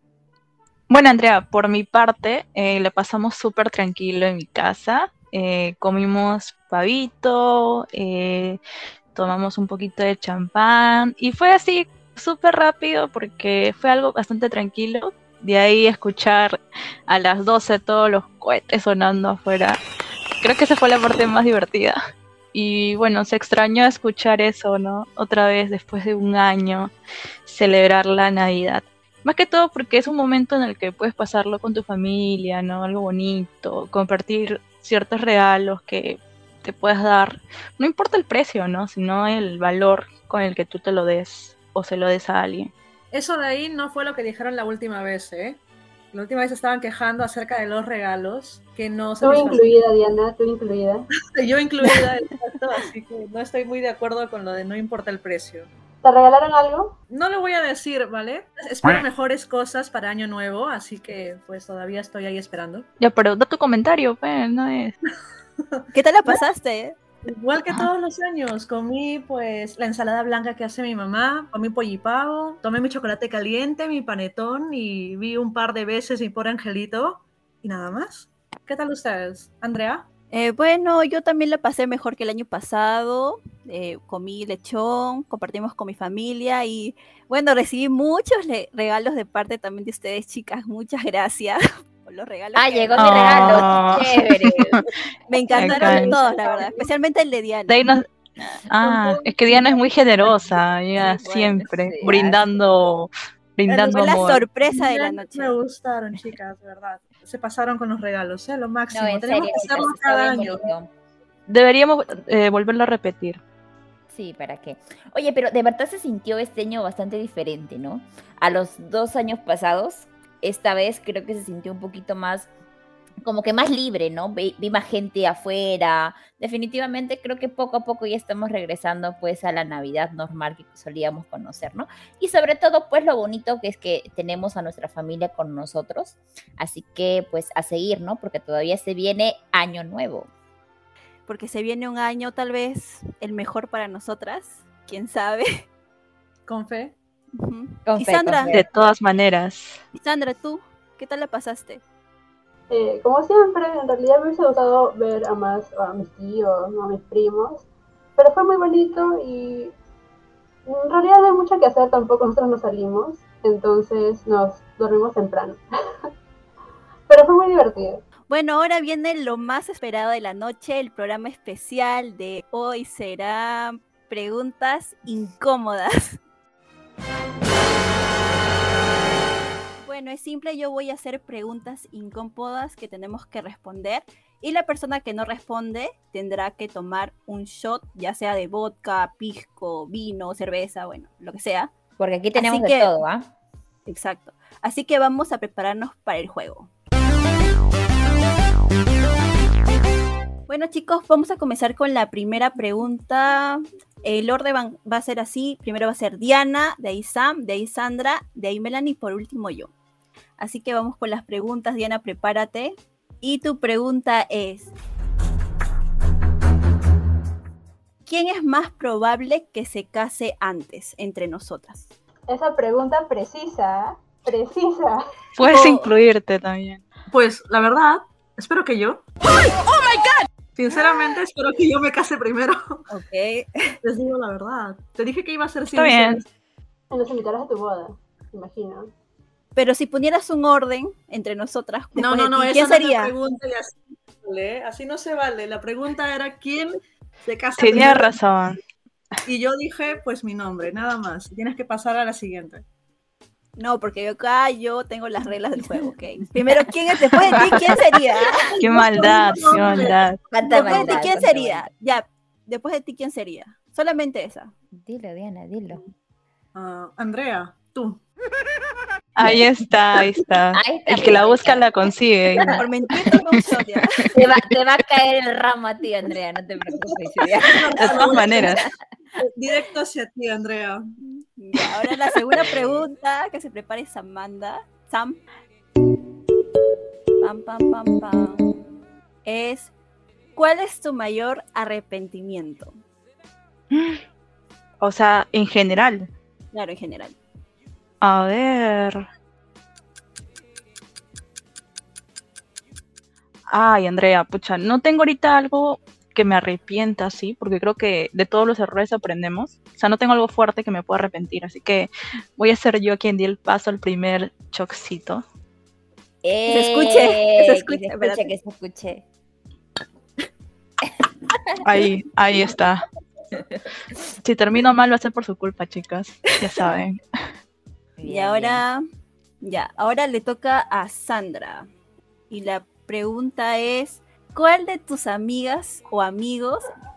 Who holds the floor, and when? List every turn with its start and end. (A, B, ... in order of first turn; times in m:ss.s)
0:00.9-0:08.6 A
0:09.2-0:19.8 A
0:20.4-0:22.0 A
0:22.5-0:26.9 A
0:27.5-0:42.7 A
0:43.1-0:45.6 B
0:46.1-0:49.7 B
0:49.2-0:51.1 C
0:51.2-0:55.7 B
0:56.0-0:57.0 C
0:57.1-1:02.9 B
1:03.0-1:05.0 A
1:05.9-1:07.0 D
1:07.2-1:20.1 B
1:20.3-1:34.0 D
1:32.6-1:34.8 E
1:32.9-1:34.8 A
1:35.3-1:37.8 D
1:35.4-1:36.9 C
1:35.6-1:36.2 A
1:37.7-1:38.1 A
1:38.7-1:44.4 A
1:41.0-1:41.7 D
1:41.6-1:42.4 E
1:43.7-1:50.7 B
1:43.7-1:45.6 D
1:48.9-1:50.9 E
1:51.5-1:53.4 A
1:54.1-2:02.5 E
2:03.2-2:20.3 E
2:21.3-2:25.6 D
2:26.5-2:27.0 B
2:27.3-2:28.6 D
2:27.9-2:28.6 E
2:28.5-2:29.8 A
2:30.0-2:31.8 D
2:32.7-2:39.8 C
2:40.7-2:45.6 C
2:47.1-2:48.0 C
2:48.3-2:56.2 D
2:59.8-3:11.7 D
3:12.0-3:13.3 E
3:12.4-3:12.9 D
3:13.9-3:16.7 D
3:20.5-3:29.7 D
3:30.4-3:34.7 D
3:38.1-3:41.9 D
3:42.3-3:45.0 C
3:45.4-3:46.8 A
3:45.4-3:45.9 D
3:47.1-3:49.0 B
3:50.6-3:52.9 B
3:52.9-3:53.8 D
3:53.8-3:56.2 B
3:55.7-3:56.2 A
3:56.9-3:58.9 C
3:59.6-4:03.1 D
4:02.0-4:08.1 B
4:07.6-4:08.6 A
4:09.3-4:12.6 B
4:13.6-4:18.5 D
4:17.4-4:17.7 A
4:18.4-4:20.0 B
4:18.6-4:20.2 A
4:20.3-4:21.7 E
4:20.4-4:24.5 D
4:20.6-4:21.0 B
4:24.7-4:25.8 E
4:26.6-4:28.0 B
4:29.2-4:32.6 A
4:30.5-4:31.7 E
4:32.3-4:32.6 E
4:32.5-4:33.9 D
4:34.1-4:38.7 E
4:37.2-4:38.6 B
4:37.8-4:38.6 A
4:39.2-4:41.0 B
4:41.4-4:45.2 D
4:47.2-4:48.5 D
4:49.2-4:49.7 D
4:50.4-4:52.7 D
4:53.7-4:54.0 A
4:54.8-4:56.1 A
4:56.5-4:57.2 D
4:58.0-4:59.1 A
5:03.5-5:15.2 A
5:16.2-5:19.0 E
5:16.5-5:18.2 D
5:20.8-5:21.9 E
5:21.6-5:22.8 A
5:23.3-5:23.6 E
5:24.2-5:27.0 A
5:28.0-5:28.6 E
5:28.0-5:28.8 D
5:29.4-5:31.7 D
5:32.3-5:36.7 D